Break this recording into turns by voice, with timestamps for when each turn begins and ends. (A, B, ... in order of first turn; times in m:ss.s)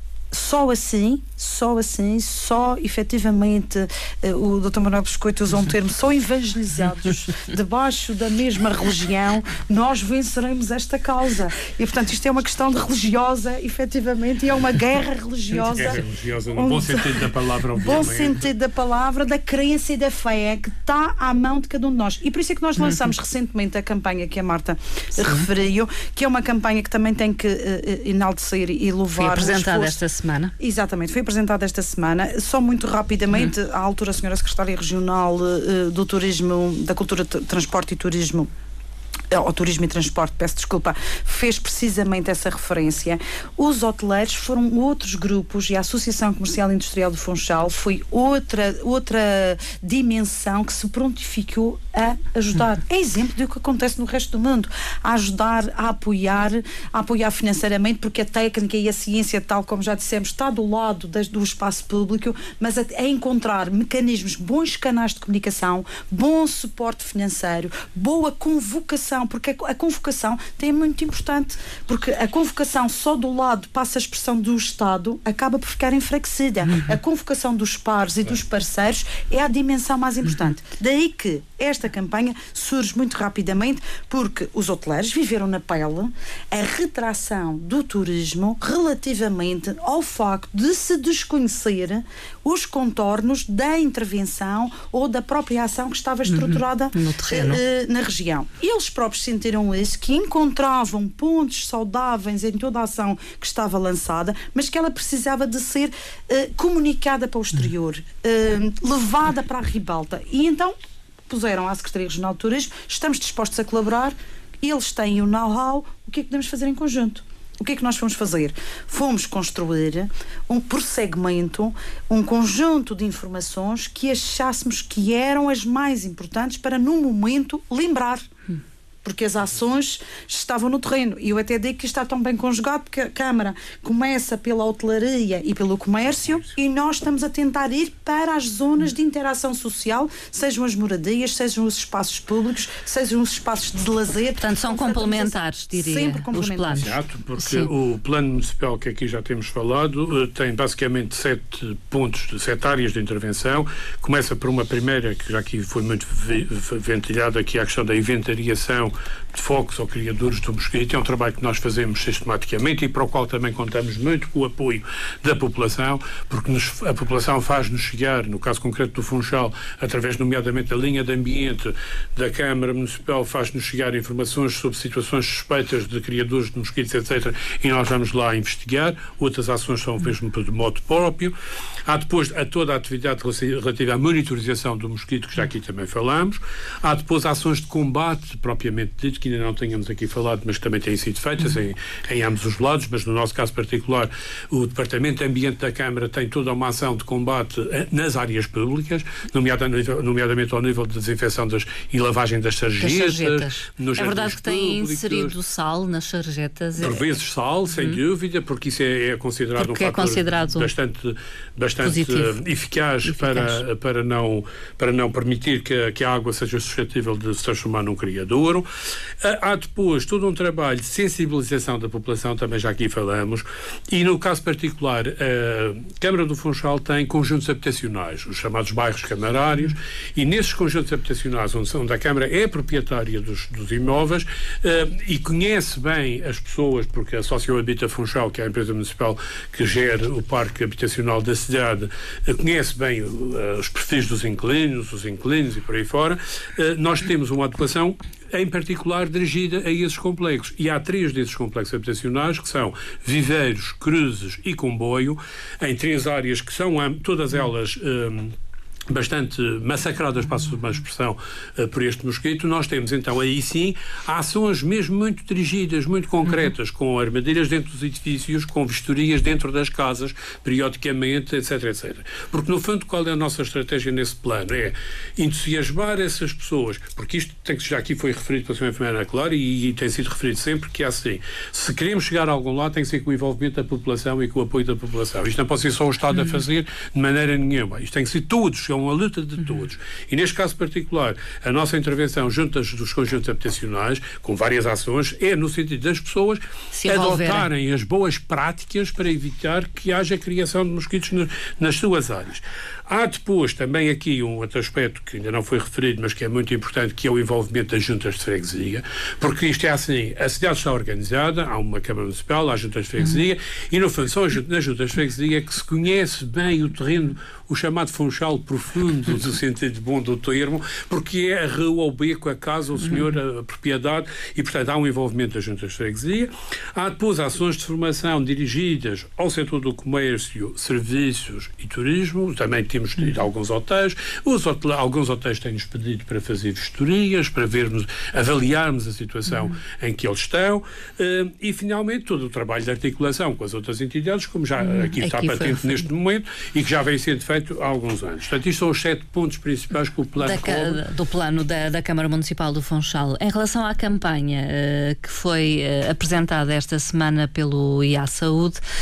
0:00.3-0:16.0 A
0:15.5-0:18.4 B
0:16.5-0:30.0 A
0:29.2-0:30.5 C
0:30.6-0:38.5 A
0:39.3-1:50.7 A
1:36.3-1:37.6 C
1:51.3-2:08.3 A
2:09.0-2:26.9 A
2:24.4-2:27.7 C
2:26.7-3:01.3 B
3:01.8-3:25.3 B
3:22.8-3:27.0 C
3:26.8-3:38.7 B
3:27.7-3:28.0 C
3:29.6-3:30.7 C
3:31.8-3:32.3 C
3:33.0-3:33.6 C
3:39.2-4:18.3 B
4:18.9-5:50.8 B
4:56.7-4:57.5 C
5:44.6-5:45.8 C
5:50.2-5:58.6 C